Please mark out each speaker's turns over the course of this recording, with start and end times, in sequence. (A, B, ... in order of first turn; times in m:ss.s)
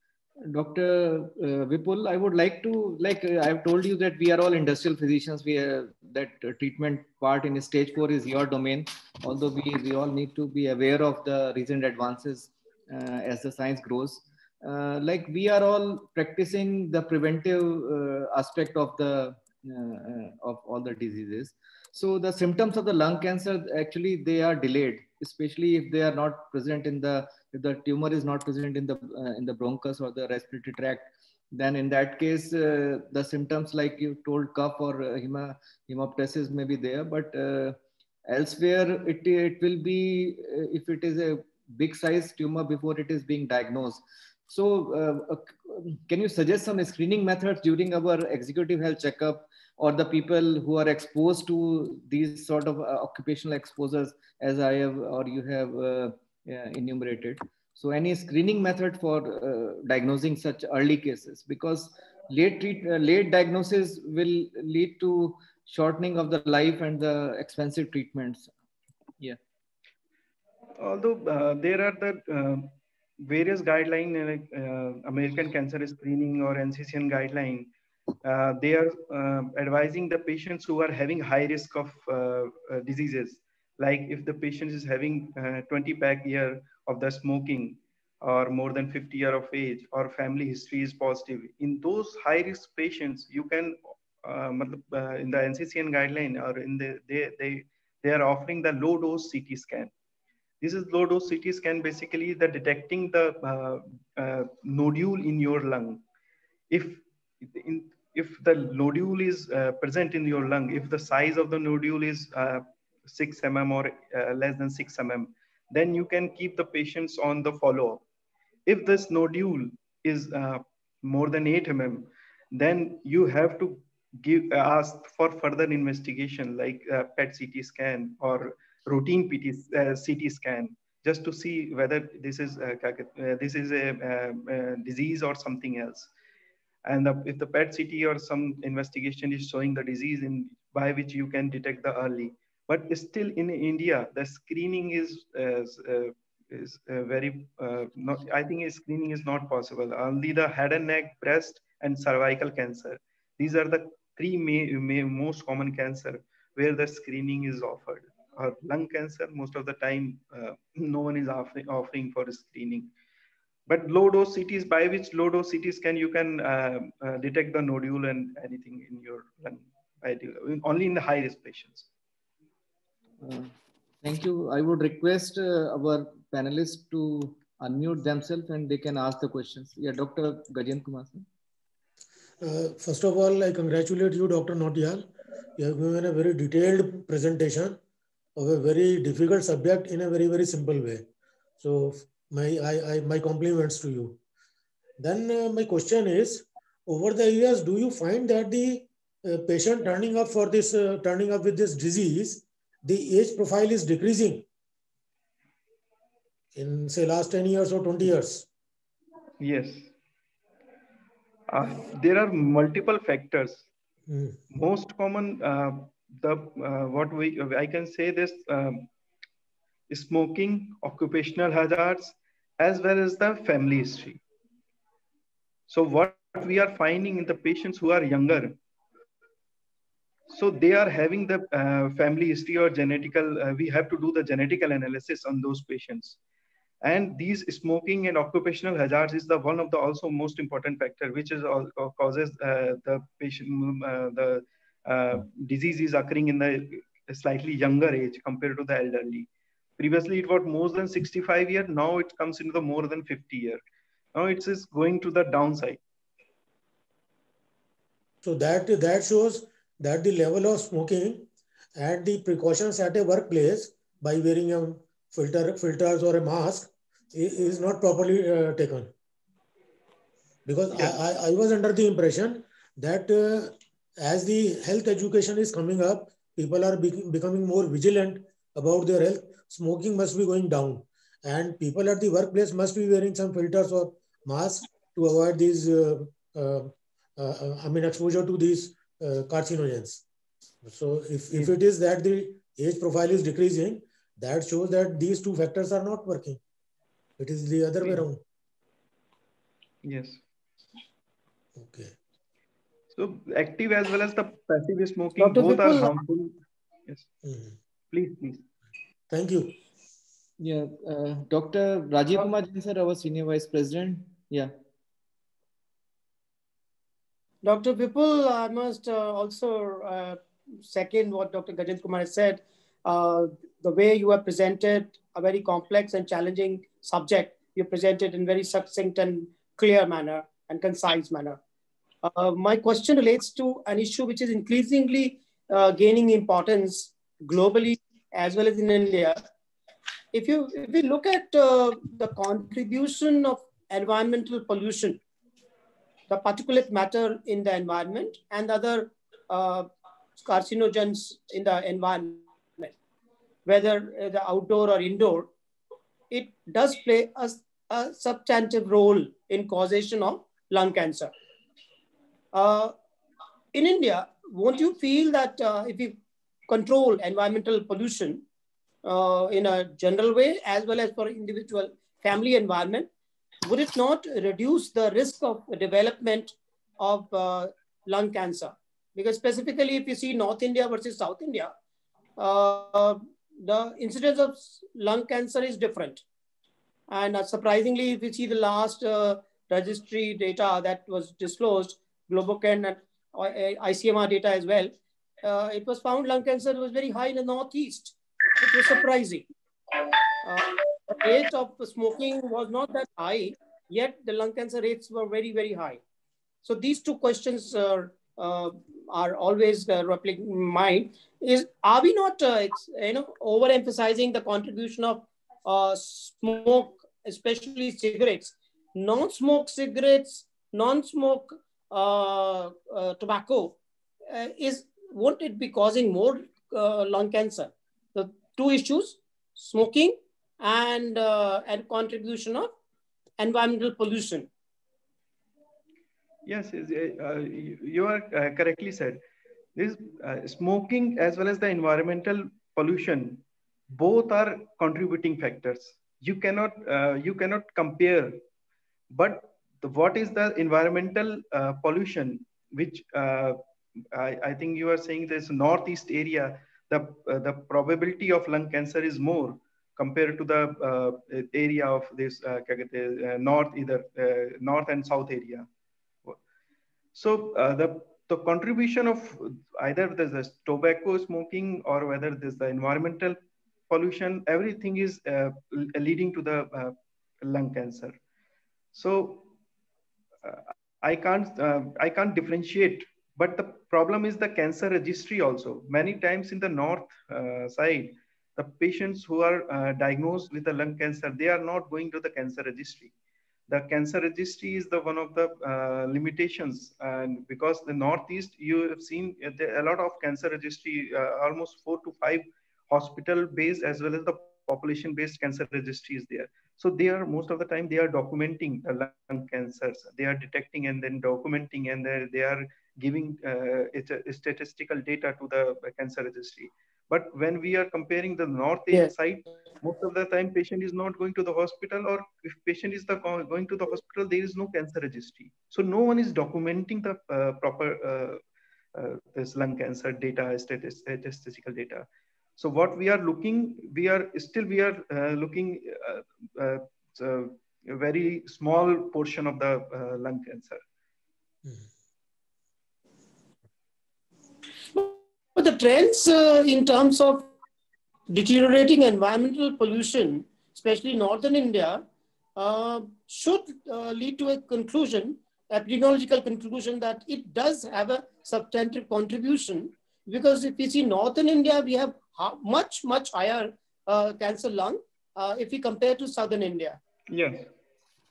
0:00.5-1:08.5 A
1:10.8-1:17.7 B
1:18.2-1:39.9 B
1:40.6-1:46.0 B
1:46.7-1:58.0 B
1:58.7-2:16.1 B
2:16.8-2:42.9 B
2:43.7-2:51.9 B
2:53.2-2:53.5 A
2:54.0-3:01.3 A
3:02.4-3:07.8 C
3:08.4-3:11.1 C
3:11.6-3:14.2 C
3:15.0-3:24.5 C
3:26.5-3:28.5 C
3:29.4-3:29.9 B
3:31.5-3:33.7 B
3:34.1-3:34.4 C
3:34.5-3:38.9 B
3:39.9-3:44.2 B
3:45.7-3:48.6 B
3:50.3-3:56.2 B
3:56.8-4:13.6 B
4:14.2-4:15.8 B
4:18.2-4:28.9 C
4:30.4-4:50.0 C
4:50.6-4:56.4 C
4:57.2-4:58.2 C
4:59.8-5:00.2 B
5:01.6-5:01.9 C
5:02.9-5:06.4 B
5:05.2-5:05.9 D
5:07.2-5:07.6 C
5:07.9-5:08.4 B
5:09.1-5:09.5 C
5:10.4-5:14.5 A
5:17.4-5:31.4 D
5:32.0-5:39.2 D
5:40.1-5:45.0 D
5:46.1-5:49.7 D
5:50.2-5:52.7 D
5:53.5-5:55.3 D
5:56.1-6:01.1 D
6:02.3-6:02.7 D
6:03.5-6:06.0 D
6:06.5-6:08.2 D
6:08.8-6:12.9 D
6:13.4-6:21.5 D
6:22.2-6:26.0 D
6:26.9-6:39.2 D
6:40.2-6:45.8 D
6:46.4-7:03.6 D
7:04.1-7:12.5 D
7:13.2-7:14.3 D
7:16.3-7:19.0 B
7:19.6-7:28.2 B
7:28.9-7:33.4 B
7:33.9-7:45.5 B
7:47.0-7:53.2 B
7:53.7-7:58.0 B
7:58.7-7:59.3 B
8:00.2-8:12.9 B
8:13.5-8:48.2 B
8:48.8-8:51.9 B
8:52.4-9:00.6 B
9:04.7-9:07.3 D
9:08.1-9:11.8 D
9:12.4-9:26.8 D
9:27.1-9:27.5 B